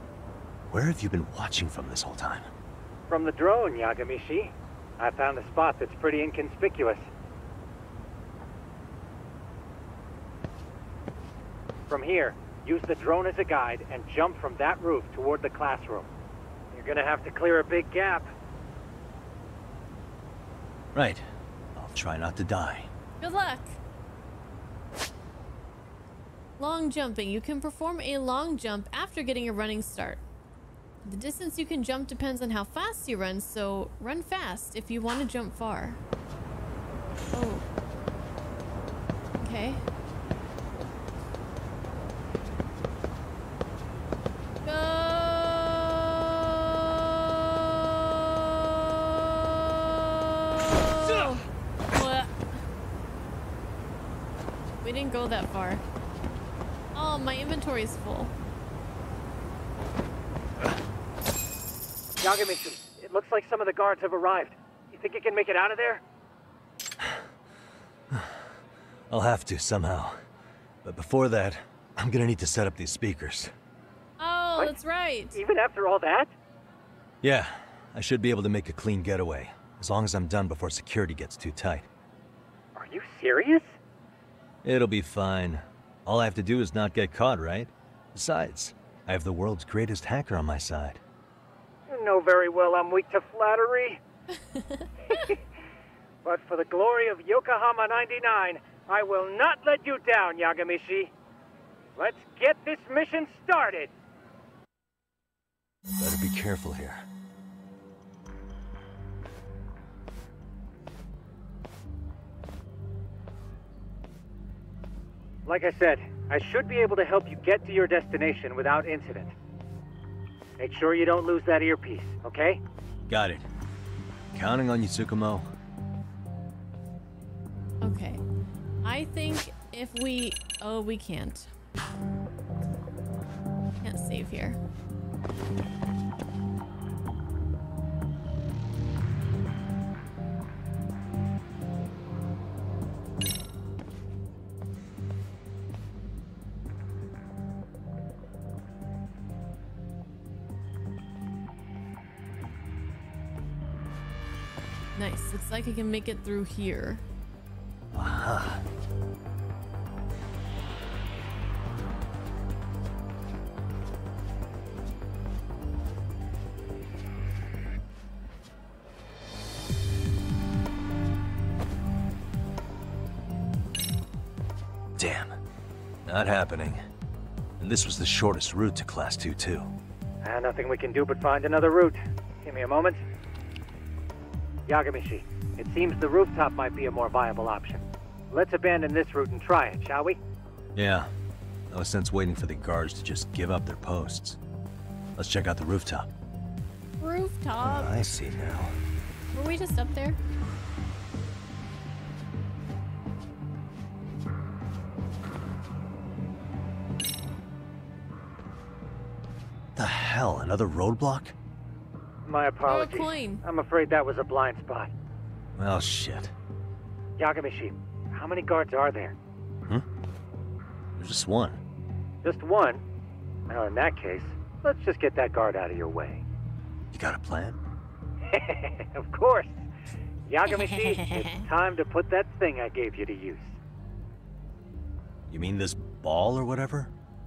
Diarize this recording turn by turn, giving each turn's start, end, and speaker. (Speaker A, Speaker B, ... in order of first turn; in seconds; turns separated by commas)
Speaker A: 0.7-2.5, Speaker B: 3.1-7.1, Speaker B: 11.9-16.1, Speaker B: 16.7-18.3, Speaker A: 20.9-22.9, Speaker C: 23.2-23.8, Speaker C: 26.6-30.2, Speaker C: 31.0-36.0, Speaker C: 37.3-37.6, Speaker C: 39.4-39.8, Speaker C: 44.6-52.4, Speaker C: 54.8-55.8, Speaker C: 57.0-58.3, Speaker B: 62.2-66.0, Speaker A: 68.1-68.5, Speaker A: 69.1-70.2, Speaker A: 70.8-73.5, Speaker C: 74.2-75.4, Speaker B: 75.3-76.3, Speaker A: 77.2-81.9, Speaker B: 82.8-83.8, Speaker A: 84.6-91.0, Speaker B: 91.9-94.0, Speaker C: 94.4-95.3, Speaker B: 96.2-101.1, Speaker B: 102.0-103.9, Speaker A: 106.0-107.0, Speaker B: 115.5-119.3, Speaker B: 120.6-122.6, Speaker A: 123.1-123.5, Speaker A: 124.3-125.5, Speaker C: 127.8-128.2, Speaker C: 128.8-131.5, Speaker C: 133.8-134.6, Speaker C: 154.9-157.0, Speaker A: 157.9-158.6, Speaker A: 175.0-175.4, Speaker A: 176.1-176.8, Speaker A: 177.6-179.7, Speaker B: 180.2-183.0, Speaker B: 184.7-190.2, Speaker A: 190.8-191.1, Speaker A: 191.7-194.4, Speaker A: 195.2-196.1, Speaker C: 197.0-197.9, Speaker A: 197.6-198.8, Speaker C: 199.3-200.2, Speaker A: 209.8-211.3, Speaker B: 212.2-214.9, Speaker C: 212.7-213.4, Speaker A: 215.6-216.3, Speaker B: 217.2-219.2, Speaker A: 221.0-221.6, Speaker B: 222.2-222.8, Speaker B: 223.5-226.2, Speaker A: 226.9-227.6, Speaker B: 228.3-229.7, Speaker B: 230.3-233.6, Speaker C: 230.6-231.4, Speaker A: 235.3-236.9